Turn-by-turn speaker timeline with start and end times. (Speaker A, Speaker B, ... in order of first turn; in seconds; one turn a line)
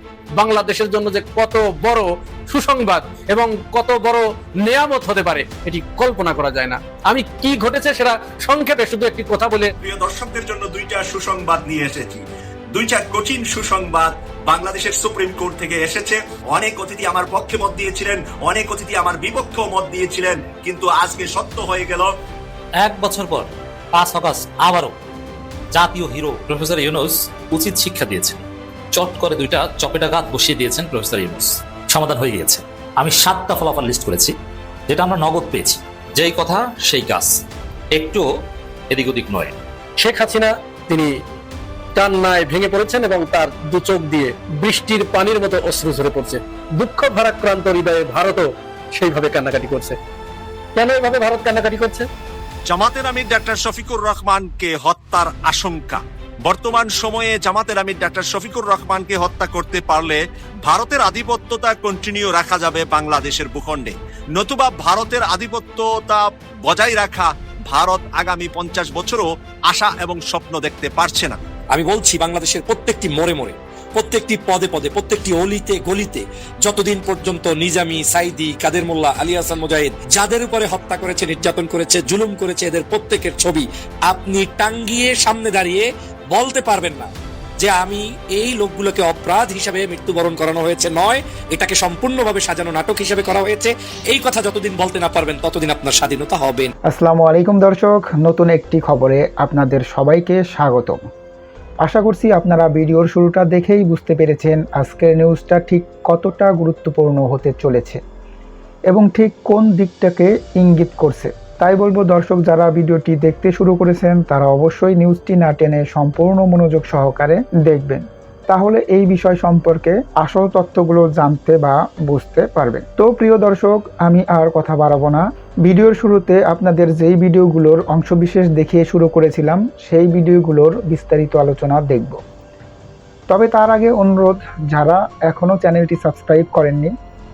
Speaker A: 0.4-9.7
Speaker B: 9.8-22.1
Speaker C: 22.8-24.9
Speaker C: 25.7-34.3
Speaker C: 34.9-37.4
Speaker C: 37.9-38.2
Speaker C: 38.9-39.5
Speaker A: 40.0-41.1
Speaker A: 42.0-50.0
Speaker A: 50.8-52.1
Speaker B: 52.7-71.4
Speaker D: 71.7-96.7
Speaker E: 96.9-101.0
Speaker E: 101.8-108.0
Speaker E: 108.9-132.2
Speaker E: 133.3-136.9